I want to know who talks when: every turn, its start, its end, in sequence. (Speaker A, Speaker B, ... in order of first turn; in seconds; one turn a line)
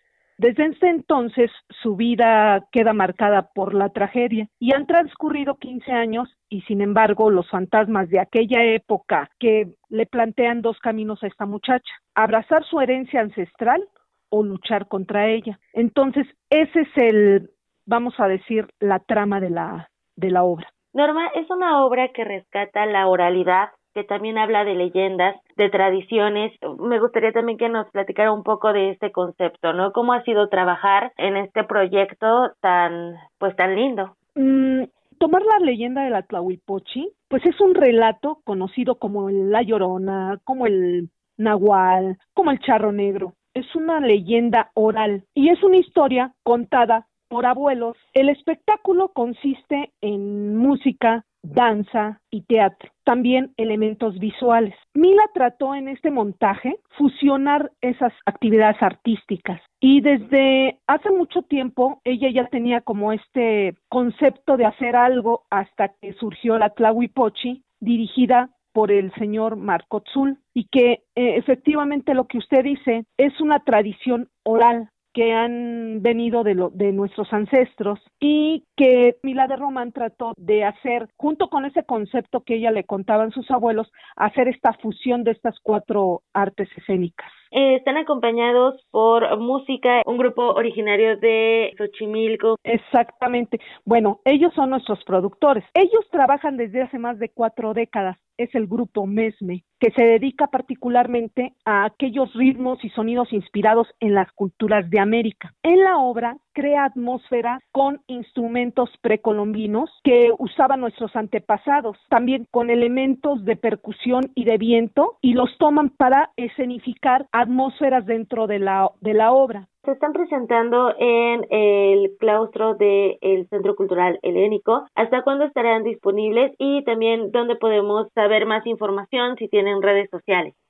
Speaker A: 0.4-20.7
Speaker B: 20.9-34.1
Speaker A: 34.4-87.3
Speaker B: 87.5-92.6
Speaker A: 92.6-119.7
Speaker B: 119.8-130.5